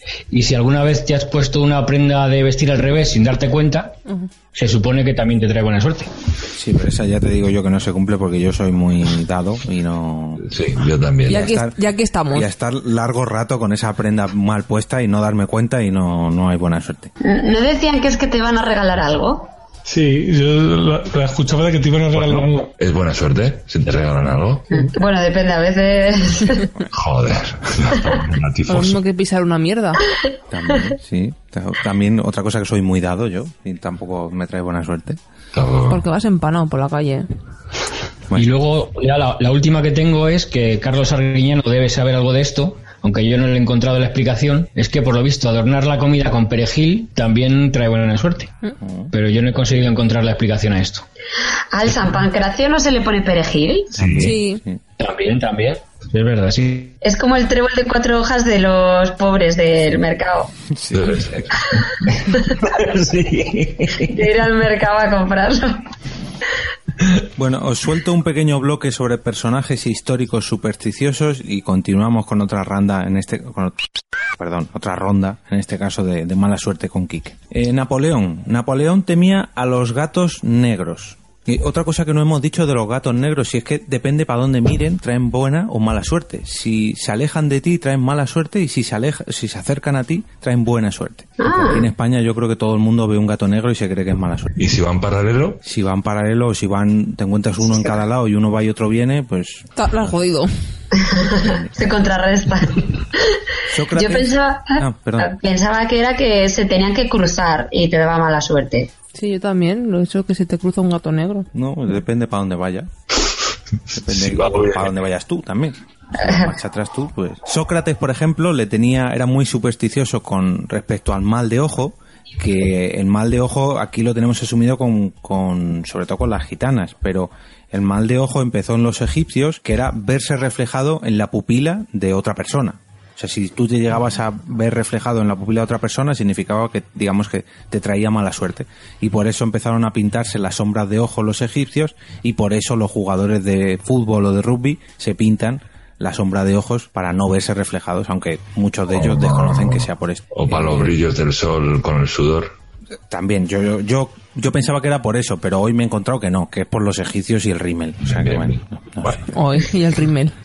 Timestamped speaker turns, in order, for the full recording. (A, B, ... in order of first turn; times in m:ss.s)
0:00.3-0:04.0 A
0:04.5-0:06.1 A
0:06.5-0:10.4 B
0:10.4-0:11.6 C
0:11.3-0:12.5 D
0:11.5-0:11.8 B
0:12.3-0:17.1 B
0:17.2-0:19.5 E
0:19.8-0:22.7 F
0:22.1-0:24.6 C
0:24.7-0:26.6 E
0:26.9-0:29.0 C
0:28.7-0:30.0 D
0:30.5-0:35.2 B
0:35.5-0:36.0 C
0:35.9-0:37.3 D
0:38.3-0:48.5 A
0:48.8-0:49.1 B
0:49.1-0:51.0 A
0:51.7-0:54.3 E
0:53.9-0:54.4 C
0:54.2-0:54.6 D
0:55.0-0:57.0 A
0:57.0-1:00.5 E
1:00.7-1:01.2 B
1:00.9-1:02.1 C
1:02.8-1:03.6 C
1:03.0-1:03.9 A
1:04.1-1:05.8 E
1:07.4-1:13.8 B
1:14.4-1:34.5 B
1:31.4-1:31.9 E
1:34.6-1:35.6 C
1:35.6-1:40.1 B
1:39.8-1:40.5 D
1:41.0-1:48.9 E
1:41.3-1:41.7 B
1:43.7-1:45.3 B
1:49.1-1:51.5 D
1:51.5-1:52.9 B
1:53.9-2:31.0 B
1:54.1-1:54.9 C
1:56.2-1:56.5 E
2:29.0-2:32.5 C
2:33.1-2:39.2 B
2:38.1-2:39.2 C
2:39.3-2:40.3 D